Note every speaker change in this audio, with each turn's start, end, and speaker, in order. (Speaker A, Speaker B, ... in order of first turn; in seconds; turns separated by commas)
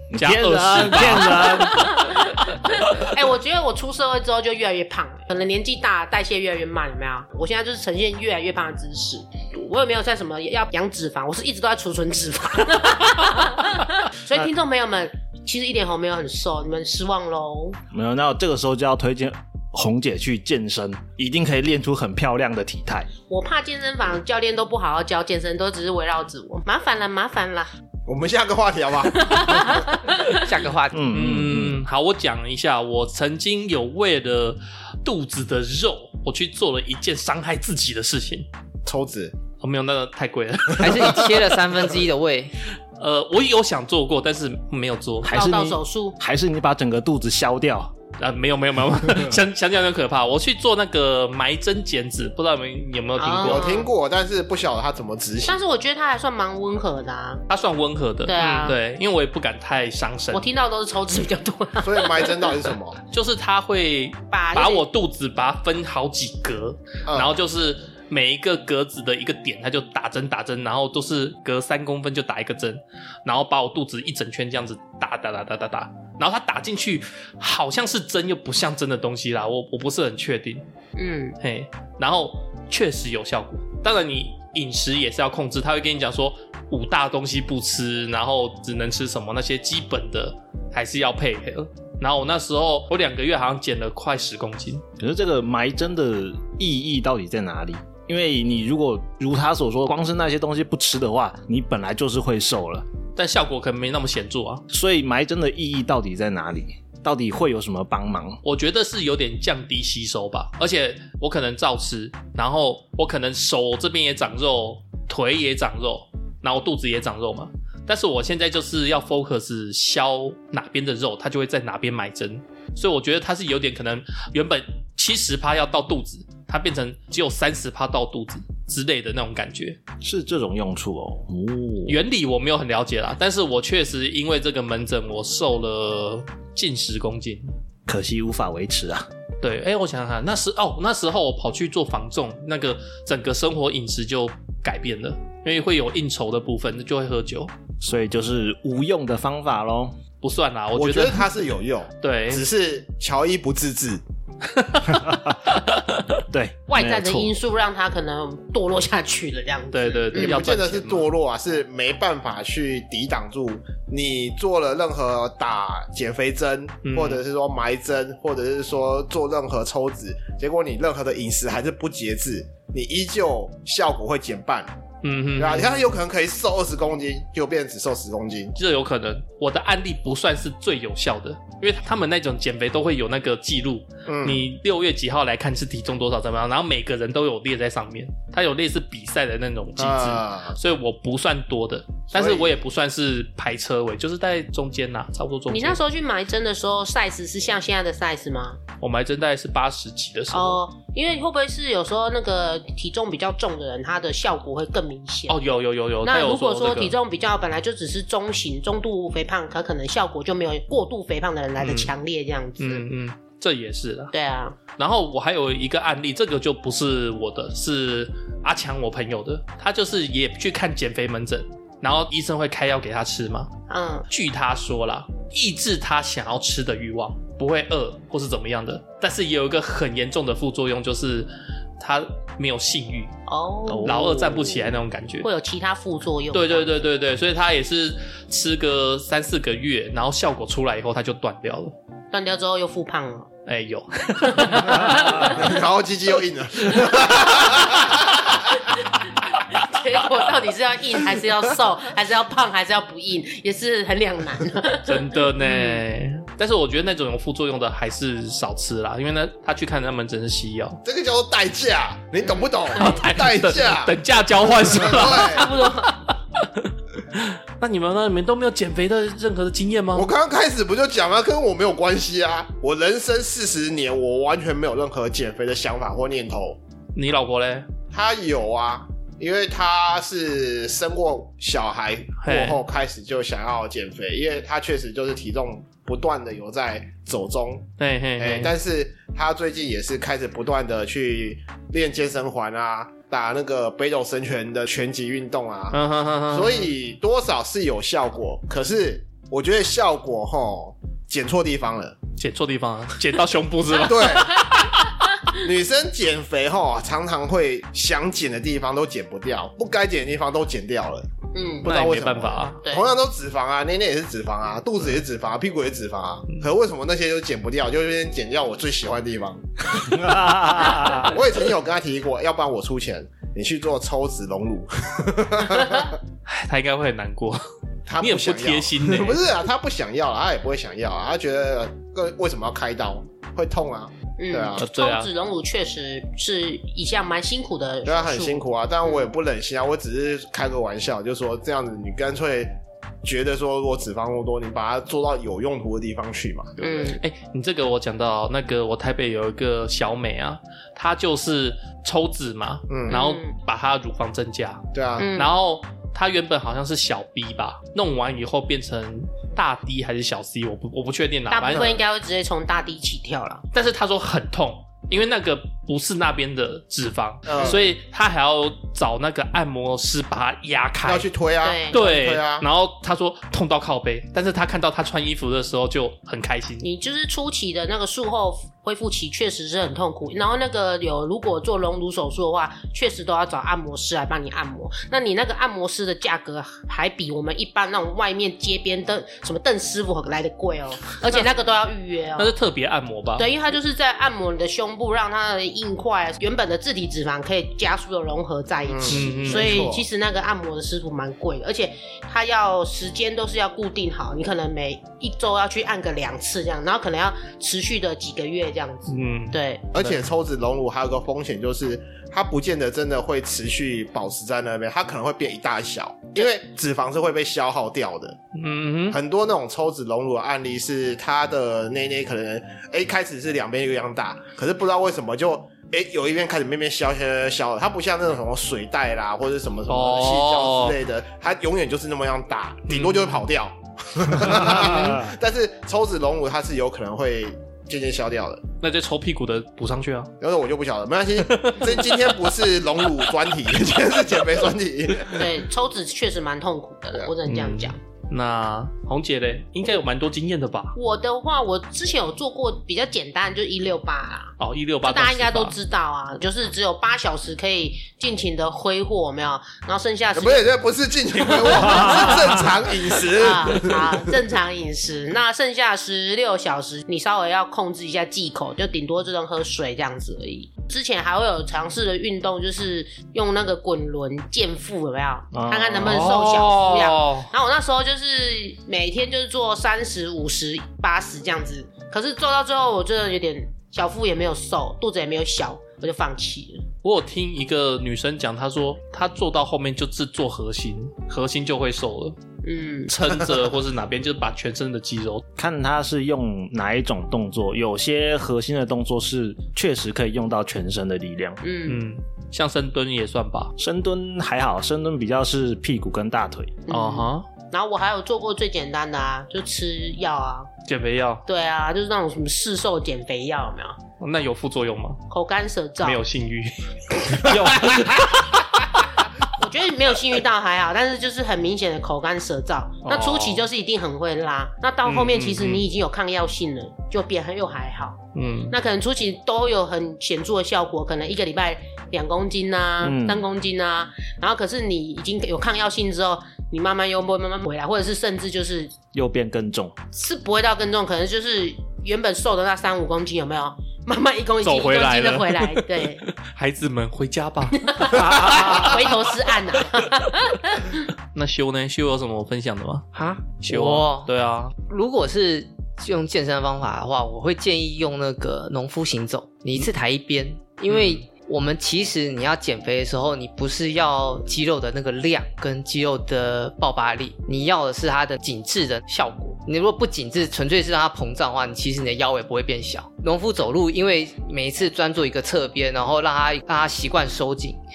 Speaker A: 0.1-2.0, Speaker B: 0.2-1.9, Speaker C: 1.2-17.8, Speaker A: 17.9-23.1, Speaker C: 23.3-27.7, Speaker D: 28.1-29.9, Speaker C: 29.2-30.5, Speaker E: 30.4-31.1, Speaker A: 30.9-31.8, Speaker B: 31.1-38.5, Speaker D: 38.9-39.3, Speaker B: 39.6-41.5, Speaker E: 40.8-42.5, Speaker B: 43.0-45.4, Speaker A: 45.2-47.9, Speaker C: 45.3-46.2, Speaker B: 48.2-53.7, Speaker C: 53.2-53.9, Speaker D: 53.4-55.6, Speaker C: 55.5-57.4, Speaker B: 57.5-60.4, Speaker C: 58.3-58.8, Speaker C: 60.3-62.5, Speaker D: 61.8-63.0, Speaker B: 63.1-80.6, Speaker C: 64.3-64.8, Speaker D: 67.1-67.3, Speaker C: 81.0-81.4, Speaker B: 81.4-94.8, Speaker A: 95.0-102.9, Speaker B: 103.2-104.6, Speaker A: 104.7-108.4, Speaker B: 108.4-129.8, Speaker A: 130.0-132.0, Speaker B: 131.9-137.5, Speaker A: 137.9-139.1, Speaker B: 139.4-147.5, Speaker A: 147.8-150.0, Speaker B: 150.2-151.3, Speaker D: 150.7-154.0, Speaker B: 152.0-152.4, Speaker B: 154.5-156.0, Speaker A: 154.9-155.4, Speaker A: 156.3-157.3, Speaker C: 156.7-160.5, Speaker B: 159.7-161.1, Speaker D: 160.1-174.7, Speaker B: 166.8-167.2, Speaker B: 175.0-175.7, Speaker D: 175.4-178.6, Speaker B: 178.6-195.8, Speaker D: 184.1-184.5, Speaker D: 189.8-190.6, Speaker D: 192.1-192.6, Speaker C: 195.5-198.6, Speaker B: 198.8-200.6, Speaker C: 200.3-205.4, Speaker B: 205.3-206.9, Speaker C: 206.0-212.9, Speaker B: 211.6-211.9, Speaker B: 212.6-214.1, Speaker C: 214.1-214.6, Speaker B: 214.8-223.5, Speaker C: 223.7-224.1, Speaker B: 224.1-233.1, Speaker C: 233.3-234.1, Speaker A: 233.7-234.8, Speaker B: 233.8-235.3, Speaker C: 235.2-236.8, Speaker B: 236.3-241.8, Speaker C: 242.1-243.3, Speaker B: 243.5-245.5, Speaker C: 244.3-245.3, Speaker D: 245.0-248.3, Speaker C: 249.5-255.8, Speaker B: 254.9-260.8, Speaker D: 260.8-264.0, Speaker C: 262.2-263.0, Speaker B: 262.8-270.1, Speaker D: 264.7-265.5, Speaker C: 265.0-266.0, Speaker D: 269.9-276.6, Speaker B: 276.9-277.7, Speaker D: 277.9-302.0, Speaker B: 282.2-282.6, Speaker B: 287.8-288.5, Speaker B: 295.7-296.7, Speaker B: 302.2-304.9, Speaker D: 303.8-304.4, Speaker D: 305.3-311.1, Speaker C: 311.4-311.7, Speaker D: 311.6-326.0, Speaker B: 311.6-312.6, Speaker C: 312.6-312.9, Speaker A: 319.9-321.1, Speaker B: 326.3-327.4, Speaker D: 327.9-334.6, Speaker B: 328.0-329.2, Speaker C: 334.2-339.1, Speaker B: 334.6-335.1, Speaker D: 337.9-346.9, Speaker C: 346.6-347.0, Speaker B: 347.0-361.8, Speaker D: 352.7-353.0, Speaker C: 352.9-353.3, Speaker D: 354.7-355.1, Speaker C: 355.0-355.3, Speaker C: 361.3-363.4, Speaker B: 363.5-371.1, Speaker D: 367.3-367.7, Speaker D: 370.8-372.5, Speaker C: 371.4-371.8, Speaker B: 371.7-376.7, Speaker C: 376.6-392.3, Speaker B: 392.2-393.3, Speaker C: 393.2-409.7, Speaker D: 398.7-399.9, Speaker B: 398.9-399.7, Speaker B: 408.9-410.0, Speaker D: 409.7-418.2, Speaker B: 418.4-419.0, Speaker D: 418.9-438.4, Speaker B: 429.7-430.8, Speaker B: 432.7-433.2, Speaker B: 438.6-440.1, Speaker D: 440.2-445.2, Speaker B: 441.3-442.0, Speaker C: 445.1-447.8, Speaker B: 447.3-450.8, Speaker C: 450.8-460.5, Speaker B: 454.4-455.6, Speaker D: 460.1-464.1, Speaker C: 461.2-462.5, Speaker C: 463.0-486.6, Speaker A: 475.3-476.1, Speaker B: 475.8-477.3, Speaker B: 486.8-492.2, Speaker C: 492.4-492.9, Speaker B: 492.9-495.2, Speaker A: 495.4-501.4, Speaker C: 501.4-501.8, Speaker B: 501.7-503.5, Speaker A: 503.6-506.6, Speaker C: 506.7-510.5, Speaker B: 506.7-507.3, Speaker B: 510.7-511.2, Speaker C: 511.3-513.8, Speaker B: 514.0-515.0, Speaker C: 515.1-516.0, Speaker B: 515.8-518.8, Speaker C: 519.4-528.0, Speaker B: 522.8-523.5, Speaker B: 524.9-525.7, Speaker B: 528.1-528.5, Speaker C: 528.5-538.7, Speaker A: 532.8-533.3, Speaker A: 538.9-539.8, Speaker C: 539.9-546.0, Speaker B: 544.4-549.1, Speaker C: 547.6-550.8, Speaker B: 551.1-552.9, Speaker E: 552.9-554.1, Speaker B: 553.4-554.5, Speaker E: 554.6-577.6, Speaker B: 560.7-561.0